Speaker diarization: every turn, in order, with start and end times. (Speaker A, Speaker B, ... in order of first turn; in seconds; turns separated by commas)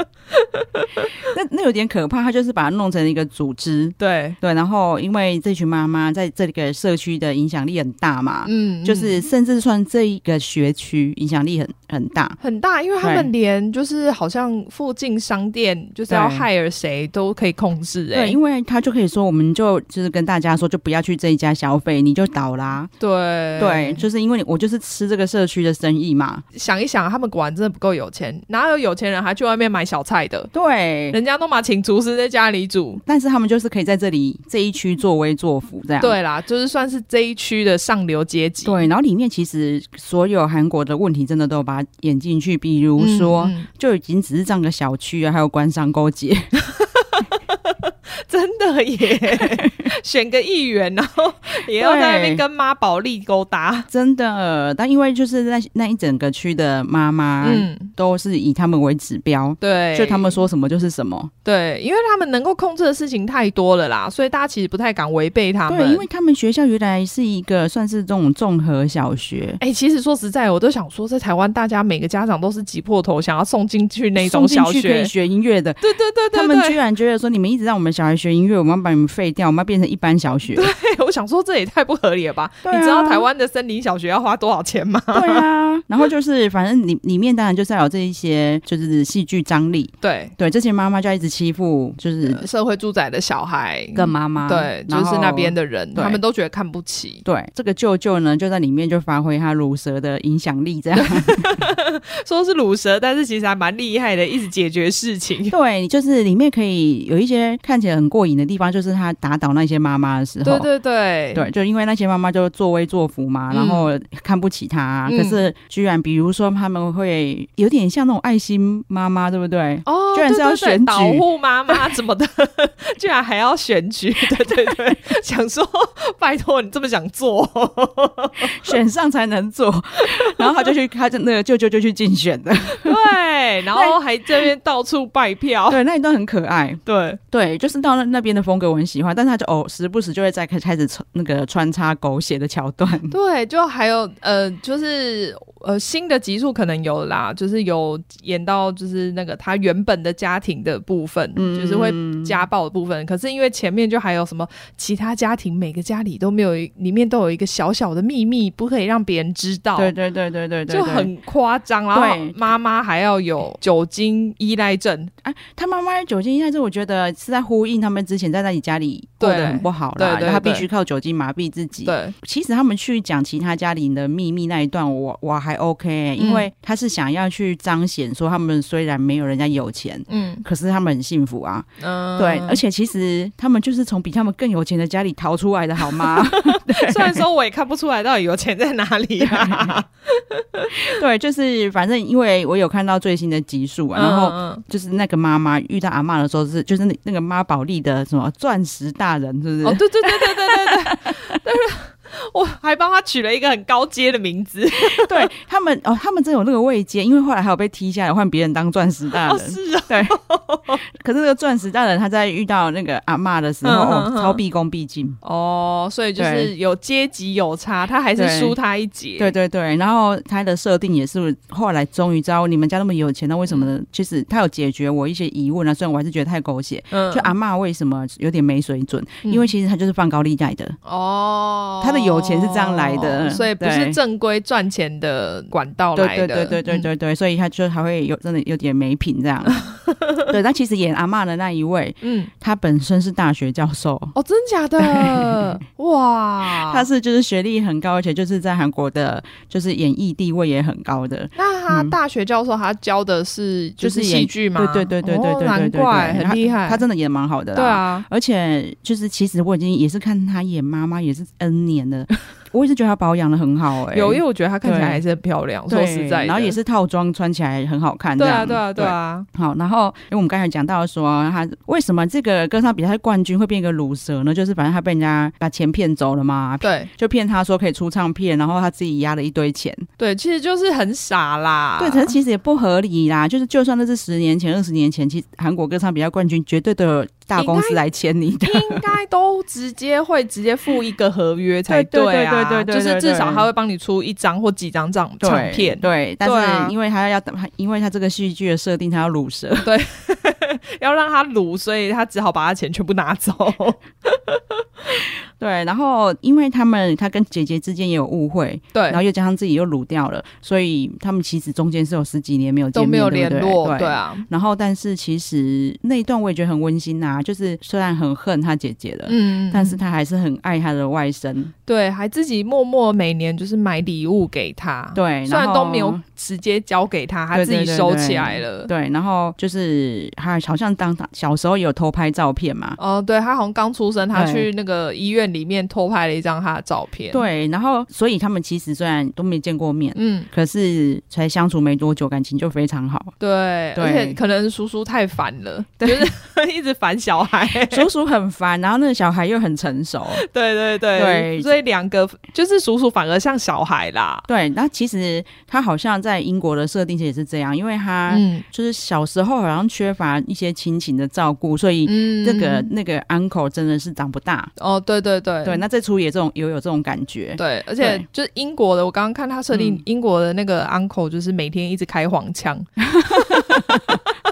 Speaker A: 0.3-1.1, Speaker B: 1.2-12.4, Speaker A: 4.0-4.4, Speaker A: 8.4-9.2, Speaker A: 12.4-18.4, Speaker B: 13.0-13.3, Speaker B: 16.1-16.4, Speaker B: 18.1-22.9, Speaker A: 23.0-24.0, Speaker B: 23.6-26.4, Speaker A: 26.5-30.5, Speaker B: 30.5-31.2, Speaker A: 31.1-33.0, Speaker B: 33.0-36.2, Speaker A: 36.0-38.8, Speaker B: 38.6-46.5, Speaker A: 43.0-43.7, Speaker A: 46.6-53.9, Speaker B: 51.7-52.4, Speaker B: 53.9-61.3, Speaker A: 57.4-57.9, Speaker A: 59.6-60.4, Speaker A: 61.4-66.0, Speaker B: 65.7-69.6, Speaker A: 69.6-75.1, Speaker B: 74.2-80.7, Speaker A: 75.8-76.8, Speaker A: 80.5-85.5, Speaker B: 82.6-83.3, Speaker B: 85.1-92.5, Speaker A: 90.0-90.3, Speaker A: 92.2-97.2, Speaker B: 93.9-96.2, Speaker B: 97.2-101.6, Speaker A: 101.0-105.5, Speaker B: 105.5-110.7, Speaker A: 110.4-111.4, Speaker B: 111.3-121.8, Speaker A: 113.5-113.9, Speaker A: 115.1-115.4, Speaker A: 119.8-128.8, Speaker B: 128.4-133.0, Speaker A: 130.0-130.7, Speaker A: 132.7-135.8, Speaker B: 133.7-134.4, Speaker B: 135.7-136.8, Speaker A: 136.8-137.2, Speaker B: 137.3-143.1, Speaker A: 143.1-159.9, Speaker B: 151.3-152.4, Speaker B: 159.8-161.1, Speaker A: 160.7-165.1, Speaker B: 161.9-162.3, Speaker B: 165.2-187.2, Speaker A: 169.2-170.7, Speaker A: 171.8-172.1, Speaker A: 176.2-176.5, Speaker A: 180.1-180.4, Speaker A: 181.8-182.6, Speaker A: 185.8-190.9, Speaker B: 189.2-189.7, Speaker B: 190.8-201.1, Speaker A: 193.9-194.6, Speaker A: 199.6-205.3, Speaker B: 204.9-210.2, Speaker A: 209.2-210.8, Speaker B: 210.8-215.2, Speaker A: 213.6-214.4, Speaker A: 215.2-219.3, Speaker B: 216.2-216.5, Speaker B: 218.2-218.6, Speaker B: 219.2-230.8, Speaker A: 226.9-227.3, Speaker A: 230.8-236.9, Speaker B: 231.8-234.0, Speaker B: 235.9-239.6, Speaker A: 239.7-240.2, Speaker B: 240.3-244.1, Speaker A: 242.0-242.3, Speaker A: 244.1-246.9, Speaker B: 244.8-245.5, Speaker B: 246.4-251.9, Speaker A: 251.3-256.8, Speaker B: 253.8-265.0, Speaker A: 257.5-258.1, Speaker A: 263.9-266.6, Speaker B: 265.7-279.9, Speaker A: 268.2-269.2, Speaker A: 276.6-276.9, Speaker A: 280.0-282.1, Speaker B: 281.8-288.8, Speaker A: 287.4-287.8, Speaker A: 288.4-296.7, Speaker B: 291.7-293.5, Speaker B: 295.2-299.7, Speaker A: 299.6-305.0, Speaker B: 305.4-321.5, Speaker A: 308.7-309.0, Speaker A: 312.7-314.3, Speaker A: 319.1-319.8, Speaker A: 321.7-328.7, Speaker B: 324.9-326.0, Speaker B: 327.3-332.8, Speaker A: 332.8-337.2, Speaker B: 334.1-334.5, Speaker B: 337.1-343.1, Speaker A: 339.9-340.3, Speaker A: 343.2-347.9, Speaker B: 343.8-344.2, Speaker B: 345.8-346.1, Speaker B: 347.7-350.2, Speaker A: 350.1-354.2, Speaker B: 350.9-351.6, Speaker B: 354.3-364.5, Speaker A: 358.1-358.4, Speaker A: 361.9-362.7, Speaker A: 364.6-365.6, Speaker B: 365.4-368.0, Speaker A: 367.4-374.1, Speaker B: 369.5-369.8, Speaker B: 372.8-374.0